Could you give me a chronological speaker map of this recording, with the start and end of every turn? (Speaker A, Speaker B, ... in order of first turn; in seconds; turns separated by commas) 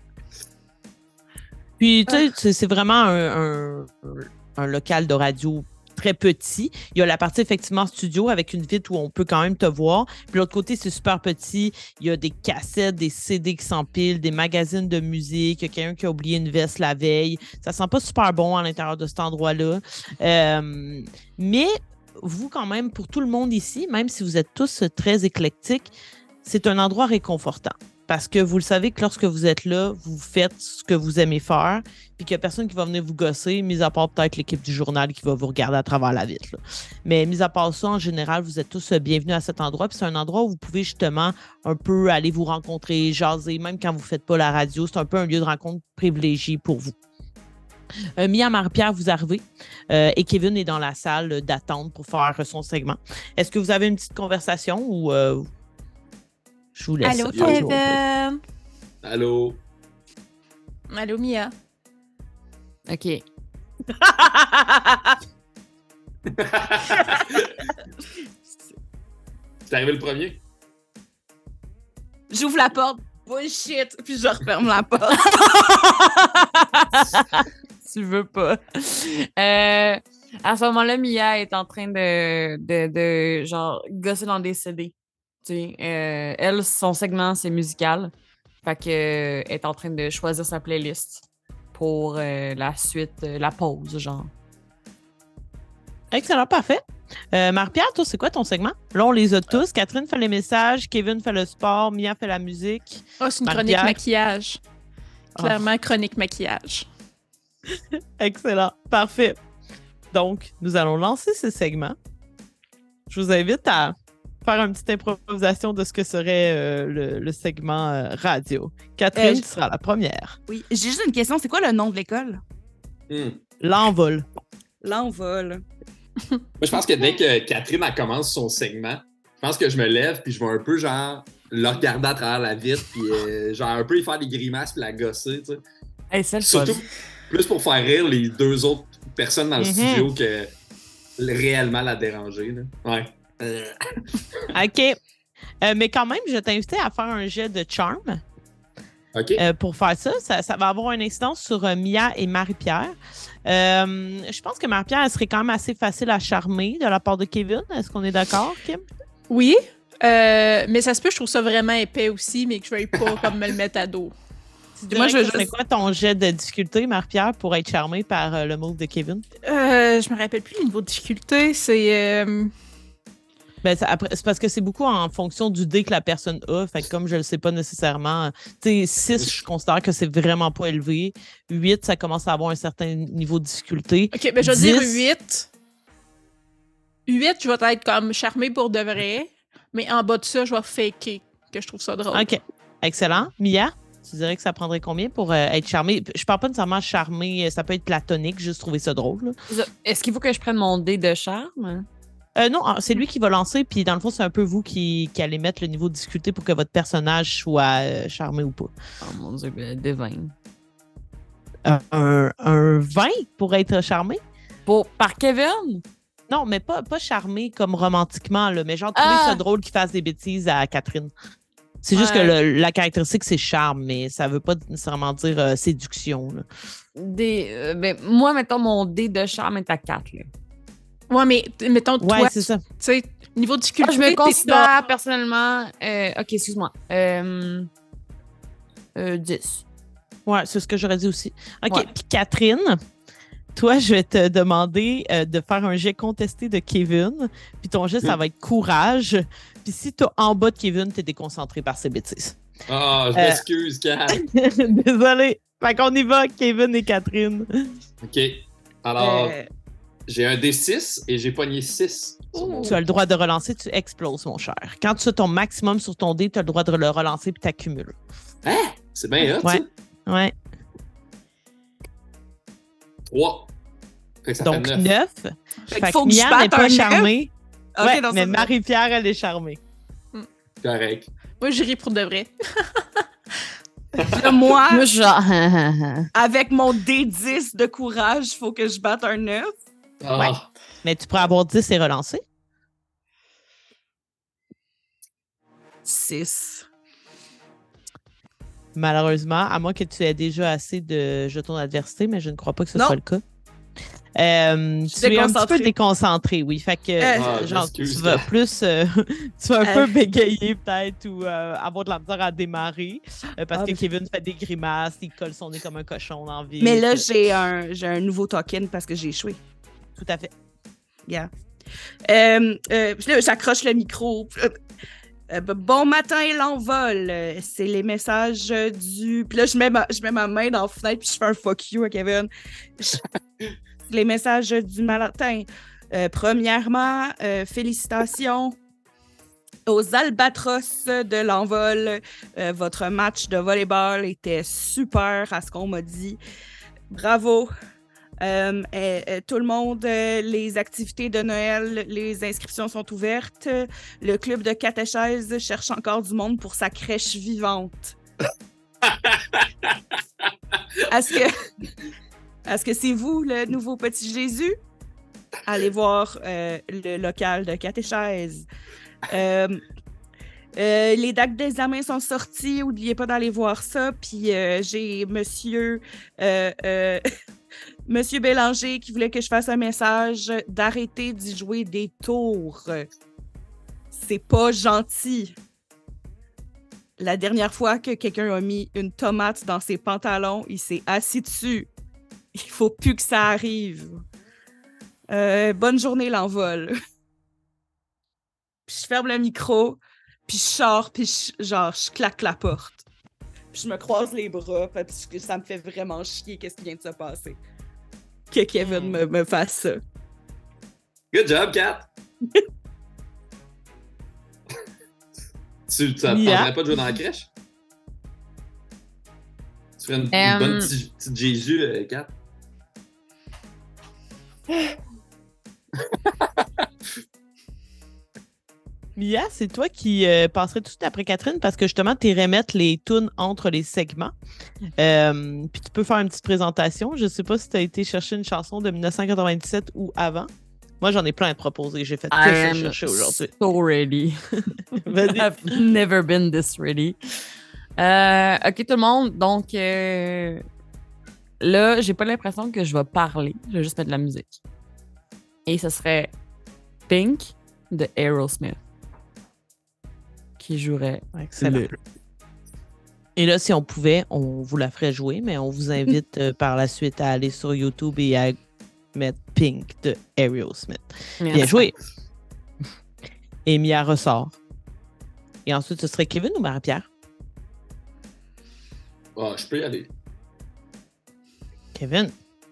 Speaker A: 1.8-25.9, Speaker A: 26.4-47.0, Speaker A: 48.2-55.5, Speaker A: 56.8-58.0, Speaker B: 57.0-58.4, Speaker C: 57.3-57.6, Speaker C: 59.0-59.6, Speaker B: 60.9-61.5, Speaker D: 62.9-63.2, Speaker C: 66.3-67.7, Speaker C: 69.7-70.4, Speaker E: 72.3-75.5, Speaker D: 75.3-88.1, Speaker D: 88.6-94.3, Speaker A: 96.1-104.0, Speaker B: 103.2-104.6, Speaker A: 105.4-105.6, Speaker B: 105.4-106.9, Speaker A: 107.8-109.4, Speaker A: 110.1-112.0, Speaker A: 113.1-120.4, Speaker E: 119.2-119.5, Speaker E: 120.5-122.4, Speaker C: 123.1-123.4, Speaker A: 123.6-124.3, Speaker E: 124.8-125.6, Speaker C: 126.6-135.6, Speaker D: 136.1-136.8, Speaker C: 136.4-140.5, Speaker A: 139.6-140.1, Speaker C: 141.2-144.4, Speaker A: 144.5-145.0, Speaker A: 145.6-148.2, Speaker C: 149.1-149.4, Speaker A: 149.4-152.9, Speaker A: 153.5-158.8, Speaker B: 159.3-164.1, Speaker A: 164.8-169.2, Speaker E: 164.9-165.5, Speaker B: 169.4-172.5, Speaker A: 173.6-185.1, Speaker B: 184.1-185.5, Speaker B: 187.1-192.3, Speaker A: 192.1-199.3, Speaker D: 199.5-201.9, Speaker A: 202.4-208.7, Speaker D: 209.0-210.3, Speaker A: 211.7-214.2, Speaker D: 214.7-215.8, Speaker A: 216.3-221.1, Speaker D: 218.9-219.4, Speaker A: 221.8-226.4, Speaker D: 221.9-222.3, Speaker D: 226.9-230.3, Speaker B: 231.1-234.8, Speaker A: 232.0-232.6, Speaker D: 233.8-237.7, Speaker D: 238.9-239.6, Speaker A: 240.3-242.8, Speaker A: 243.6-252.4, Speaker C: 252.7-254.2, Speaker A: 253.1-253.4, Speaker A: 254.1-257.7, Speaker C: 258.0-259.4, Speaker E: 259.0-259.5, Speaker C: 260.1-262.8, Speaker E: 262.4-262.7, Speaker A: 262.6-267.9, Speaker C: 268.4-269.7, Speaker A: 269.4-270.3, Speaker C: 273.1-273.5, Speaker C: 274.2-274.9, Speaker A: 274.4-279.6, Speaker E: 275.7-277.1, Speaker E: 277.8-278.5, Speaker C: 280.6-281.1, Speaker B: 281.4-283.0, Speaker C: 284.0-284.3, Speaker E: 284.1-284.9, Speaker D: 284.7-286.1, Speaker E: 286.1-289.5, Speaker C: 290.0-290.5, Speaker A: 290.2-292.2, Speaker E: 295.9-296.7, Speaker A: 298.8-303.2, Speaker A: 304.2-317.1, Speaker E: 305.0-305.7, Speaker E: 307.0-307.4, Speaker C: 307.1-308.3, Speaker E: 309.6-309.9, Speaker E: 313.5-313.8, Speaker E: 316.6-319.4, Speaker A: 320.0-320.3, Speaker E: 322.1-324.5, Speaker E: 325.3-333.0, Speaker E: 333.9-338.6, Speaker E: 339.7-346.2, Speaker E: 346.9-347.5, Speaker E: 348.2-358.0, Speaker C: 358.9-360.0, Speaker E: 360.9-361.4, Speaker E: 362.5-364.6, Speaker E: 365.4-368.5, Speaker E: 369.1-369.6, Speaker E: 370.6-377.0, Speaker E: 377.9-382.9, Speaker E: 383.9-385.4, Speaker E: 387.0-391.7, Speaker E: 392.4-394.0, Speaker E: 395.1-396.8, Speaker E: 398.7-402.8, Speaker E: 403.5-407.4, Speaker E: 408.3-409.8, Speaker A: 408.6-409.0, Speaker C: 411.1-411.9, Speaker C: 415.7-417.3, Speaker A: 416.1-416.5, Speaker C: 419.8-422.1, Speaker D: 420.1-420.7, Speaker C: 425.8-426.5, Speaker A: 429.0-434.1, Speaker A: 434.8-440.3, Speaker A: 440.8-443.3, Speaker D: 442.1-447.0, Speaker A: 444.8-445.3, Speaker D: 447.8-450.4, Speaker D: 451.4-454.4, Speaker D: 455.4-456.1, Speaker D: 456.9-458.6, Speaker D: 460.4-461.7, Speaker A: 461.1-461.7, Speaker A: 463.2-468.4, Speaker A: 468.9-471.7, Speaker D: 471.2-471.7, Speaker A: 473.4-474.4, Speaker A: 475.4-476.9, Speaker C: 479.2-479.9, Speaker A: 481.7-482.1